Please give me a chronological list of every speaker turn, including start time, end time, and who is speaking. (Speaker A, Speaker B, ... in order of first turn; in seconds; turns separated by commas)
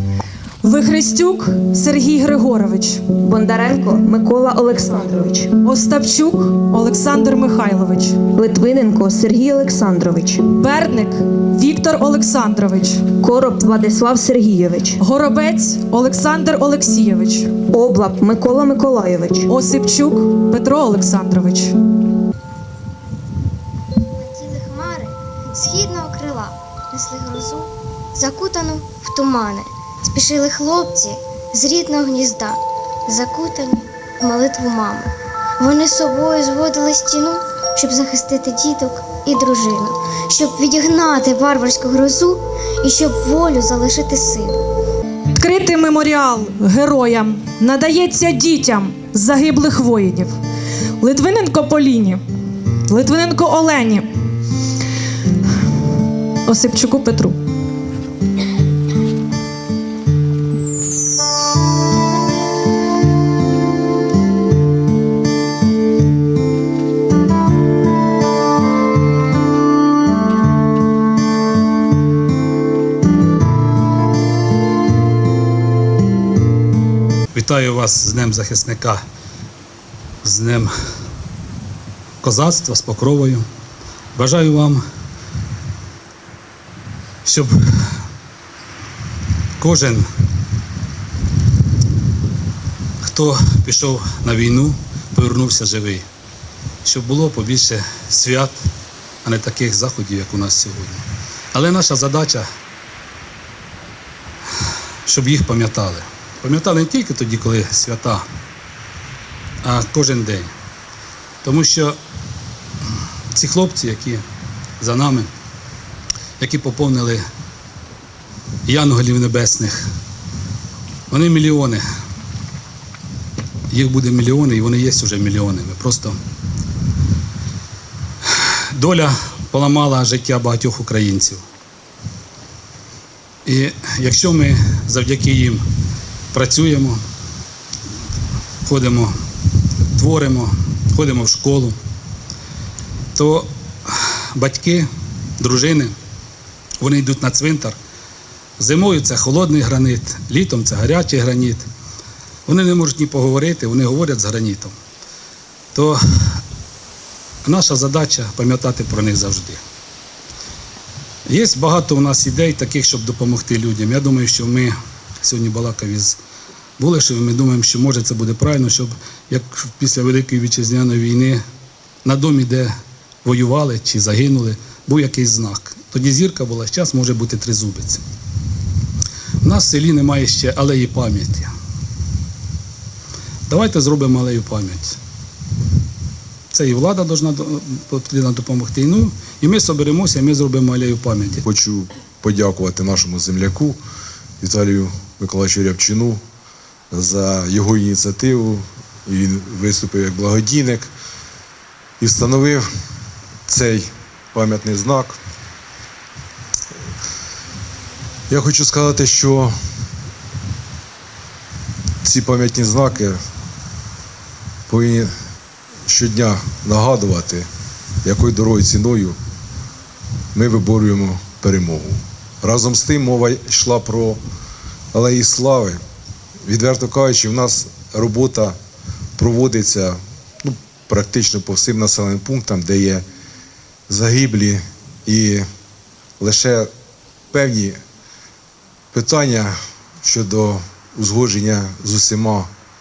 Speaker A: 0.6-3.0, Speaker B: 3.2-5.5, Speaker A: 5.6-8.2, Speaker B: 8.3-10.4, Speaker A: 10.5-13.0, Speaker B: 13.2-15.0, Speaker A: 15.0-17.5, Speaker B: 17.7-19.5, Speaker A: 19.5-21.7, Speaker C: 24.2-32.6, Speaker C: 33.1-35.1, Speaker C: 35.6-44.5, Speaker A: 45.3-50.3, Speaker A: 51.0-52.2, Speaker A: 52.9-54.1, Speaker A: 56.5-57.4, Speaker D: 77.3-79.0, Speaker D: 80.2-80.7, Speaker D: 82.2-83.4, Speaker D: 84.2-84.8, Speaker D: 87.2-87.5, Speaker D: 89.6-90.0, Speaker D: 93.0-96.0, Speaker D: 96.8-98.5, Speaker D: 99.2-101.0, Speaker D: 101.5-102.5, Speaker D: 105.0-108.2, Speaker D: 109.6-110.5, Speaker D: 111.4-112.0, Speaker D: 113.3-114.2, Speaker D: 114.8-115.3, Speaker D: 116.4-117.2, Speaker D: 118.7-119.8, Speaker D: 121.1-121.8, Speaker D: 123.7-126.2, Speaker D: 128.7-131.4, Speaker D: 133.5-135.6, Speaker D: 136.3-137.0, Speaker D: 138.7-139.1, Speaker D: 140.0-141.8, Speaker D: 143.2-144.9, Speaker D: 145.4-145.9, Speaker D: 146.8-147.8, Speaker D: 148.6-151.7, Speaker D: 152.5-154.7, Speaker D: 155.7-156.4, Speaker D: 157.4-159.6, Speaker D: 161.3-166.2, Speaker D: 166.8-171.4, Speaker D: 172.0-172.7, Speaker D: 173.2-178.0, Speaker D: 179.4-181.5, Speaker D: 183.5-185.0, Speaker D: 186.5-191.4, Speaker E: 191.4-193.8, Speaker E: 194.4-196.2, Speaker E: 196.9-200.9, Speaker E: 202.0-202.7, Speaker E: 203.5-205.2, Speaker E: 208.3-209.5, Speaker E: 212.0-213.2, Speaker E: 214.7-215.1, Speaker E: 215.9-217.5, Speaker E: 218.0-219.2, Speaker E: 220.3-224.2, Speaker E: 224.9-225.8, Speaker E: 226.5-228.6, Speaker E: 229.2-233.0, Speaker E: 233.9-235.4, Speaker E: 236.2-236.7, Speaker E: 237.3-237.8, Speaker E: 238.9-242.5